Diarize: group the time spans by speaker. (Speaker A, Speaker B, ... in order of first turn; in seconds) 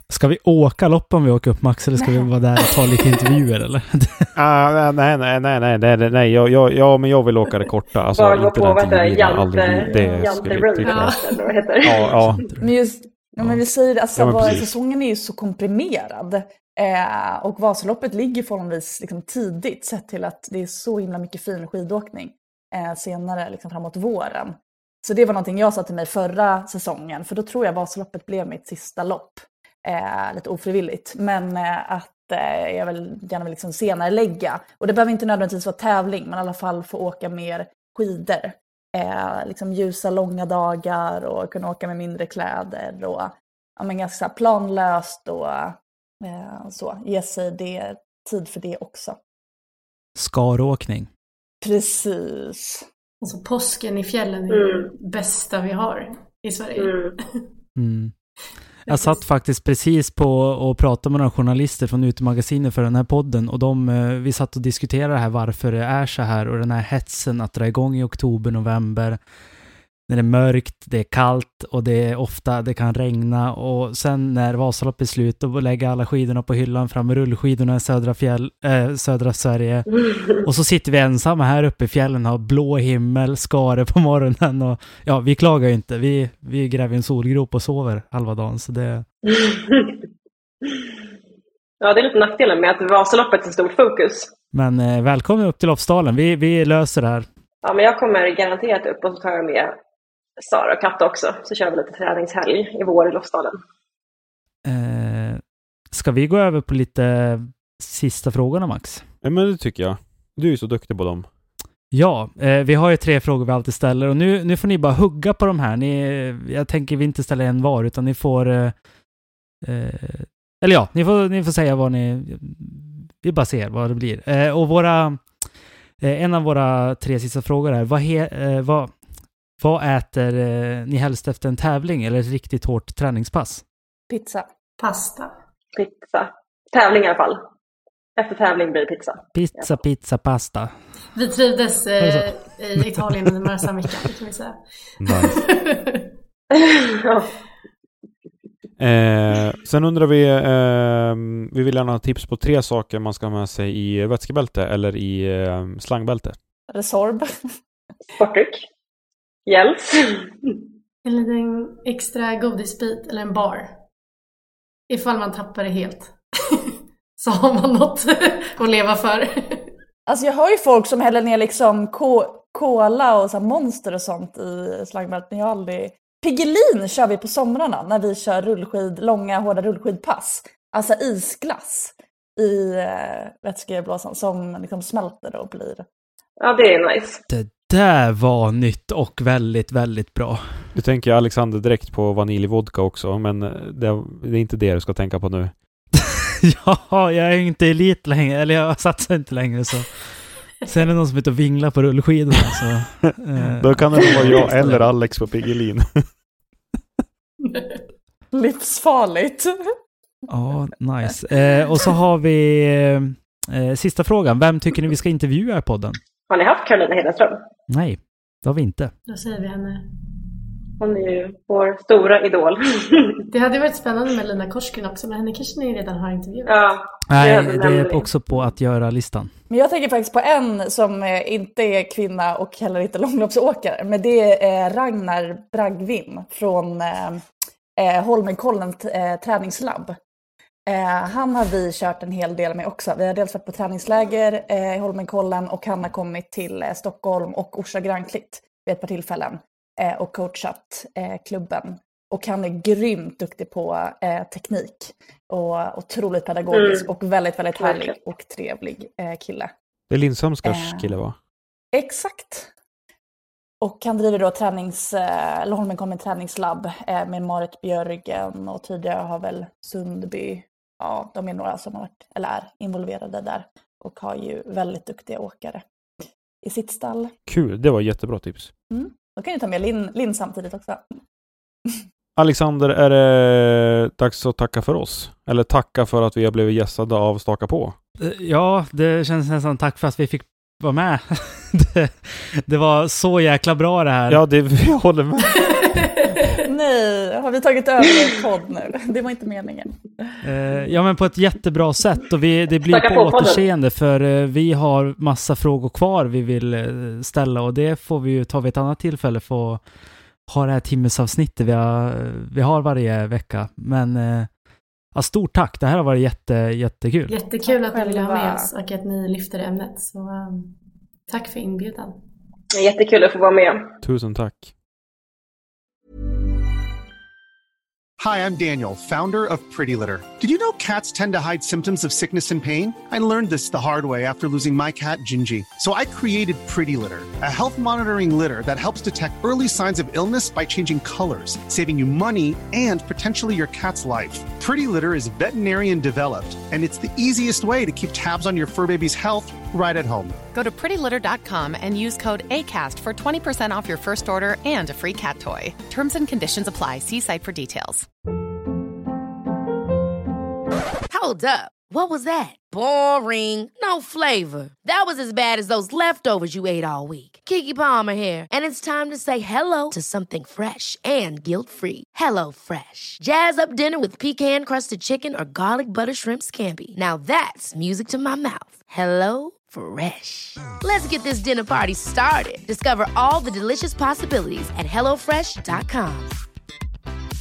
Speaker A: 0.1-4.3, 12.2-12.7, 50.1-51.1, 57.8-58.1, 58.9-69.2, 70.1-79.9, 80.4-89.0, 94.5-97.3, 104.6-109.0, 111.9-118.7, 119.6-125.2, 126.0-128.9, 129.6-133.6, 139.3-140.7, 142.0-142.3, 142.8-143.3, 187.3-190.7, 196.4-204.9, 210.3-216.0, 217.7-218.9, 227.1-229.3, 288.0-294.2, 300.2-309.6, 310.3-314.3, 314.9-317.1
Speaker B: 2.0-2.3, 12.6-49.2, 51.6-52.9, 134.1-134.5, 156.7-157.3, 170.1-185.8, 208.3-209.5, 229.5-237.2, 237.8-240.0, 240.7-259.5, 260.4-261.0, 261.7-262.5, 263.6-275.6, 276.4-277.1, 278.7-281.0, 296.4-299.8, 317.4-318.5
Speaker C: 4.3-11.2, 11.8-12.4, 14.2-14.7, 109.2-111.3, 145.0-145.3, 148.8-156.4, 190.7-195.5, 203.5-206.1, 259.9-261.1, 277.3-278.5, 282.1-287.8, 294.1-295.6, 323.8-324.5
Speaker D: 8.1-12.1, 54.5-54.9, 56.8-57.1, 89.3-90.0, 91.8-94.3, 97.6-99.7, 100.4-103.6, 135.7-137.4, 138.2-139.2, 146.5-147.3, 158.2-158.6, 159.5-160.6, 186.4-187.2, 216.3-217.4, 220.8-223.2, 226.4-228.1, 256.5-256.9, 257.6-257.9, 302.7-303.4, 322.5-323.7
Speaker E: 10.8-11.4, 53.2-57.4, 58.9-59.2, 134.8-135.3, 141.1-146.1, 161.1-163.7, 164.9-169.7, 207.4-207.8, 219.1-219.9, 223.3-226.6, 295.3-296.4, 317.1-320.6, 321.1-322.0
Speaker F: 328.0-350.1
Speaker G: 350.3-357.9
Speaker H: 360.9-386.1